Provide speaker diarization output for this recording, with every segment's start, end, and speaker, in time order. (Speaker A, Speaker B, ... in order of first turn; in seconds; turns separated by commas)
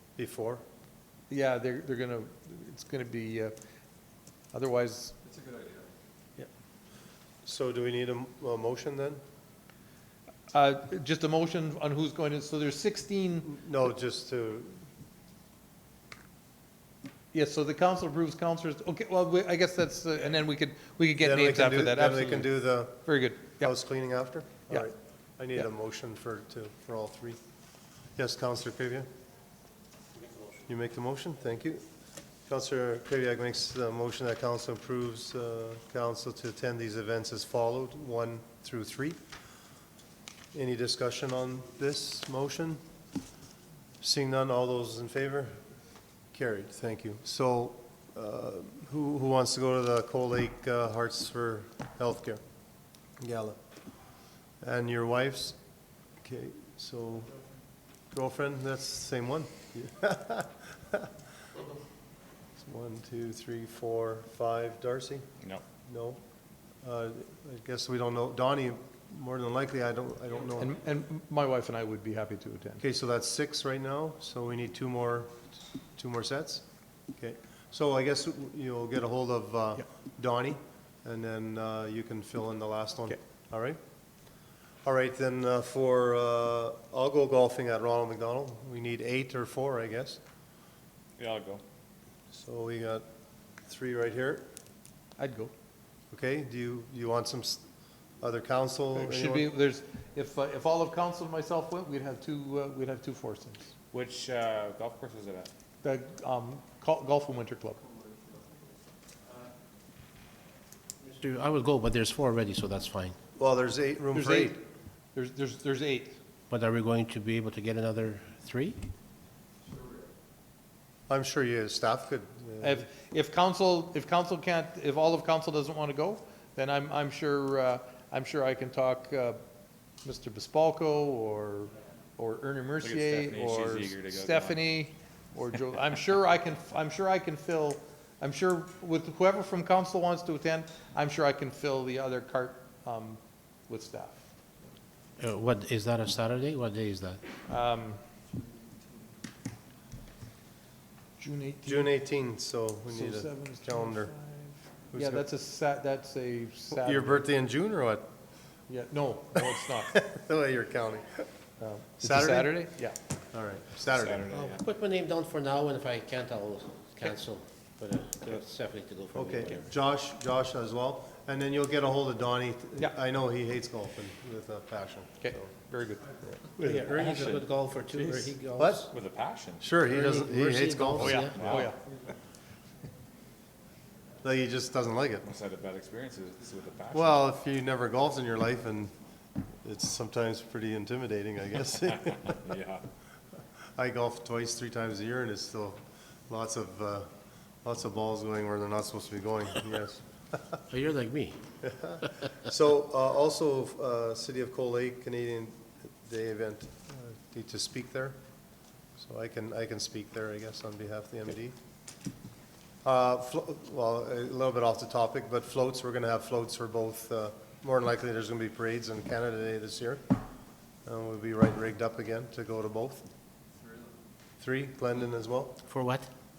Speaker A: 0.2-0.6, Speaker B: 1.3-3.5, Speaker B: 4.5-5.2, Speaker A: 7.4-9.2, Speaker B: 10.5-13.5, Speaker A: 13.5-14.8, Speaker B: 17.3-23.7, Speaker A: 21.2-27.4, Speaker A: 28.1-29.1, Speaker A: 30.7-31.8, Speaker A: 32.5-39.2, Speaker A: 40.5-42.8, Speaker A: 44.0-45.6, Speaker A: 46.3-52.4, Speaker A: 53.2-53.6, Speaker A: 54.6-55.5, Speaker A: 56.2-57.4, Speaker A: 58.1-61.1, Speaker A: 62.6-65.2, Speaker A: 65.8-66.2, Speaker A: 66.8-70.7, Speaker B: 70.6-72.8, Speaker A: 72.8-75.3, Speaker A: 76.0-83.8, Speaker A: 84.8-90.2, Speaker C: 91.2-91.6, Speaker A: 92.3-93.0, Speaker A: 93.7-94.5, Speaker B: 95.2-95.5, Speaker A: 96.1-97.6, Speaker A: 98.2-99.5, Speaker B: 98.9-103.7, Speaker C: 103.9-105.5, Speaker B: 105.8-107.8, Speaker D: 111.1-113.2, Speaker A: 113.3-114.6, Speaker B: 114.1-114.6, Speaker B: 115.1-116.2, Speaker D: 116.5-118.9, Speaker A: 121.1-122.8, Speaker B: 122.6-129.4, Speaker B: 130.0-144.2, Speaker C: 132.8-134.6, Speaker D: 145.2-147.2, Speaker B: 147.5-148.0, Speaker B: 151.2-151.9, Speaker A: 151.6-154.1, Speaker B: 152.9-157.3, Speaker A: 154.9-155.2, Speaker A: 156.7-158.1, Speaker B: 158.7-160.0, Speaker A: 159.9-161.3, Speaker B: 161.6-163.0, Speaker A: 162.0-162.7, Speaker A: 163.3-164.3, Speaker C: 163.9-164.6, Speaker D: 164.3-169.7, Speaker A: 169.1-175.5, Speaker B: 175.2-176.2, Speaker D: 176.6-178.9, Speaker C: 176.9-177.4, Speaker A: 178.6-178.9, Speaker C: 178.9-179.8, Speaker A: 179.6-181.2, Speaker D: 179.9-181.6, Speaker B: 181.0-181.8, Speaker C: 181.0-181.7, Speaker A: 184.2-185.2, Speaker C: 185.2-187.2, Speaker A: 186.9-188.9, Speaker A: 189.6-192.4, Speaker C: 192.2-192.8, Speaker A: 193.8-197.1, Speaker A: 197.6-200.0, Speaker D: 200.7-201.4, Speaker A: 201.6-208.2, Speaker A: 209.0-211.6, Speaker A: 212.8-220.0, Speaker A: 220.8-223.1, Speaker A: 224.4-225.6, Speaker D: 225.7-226.1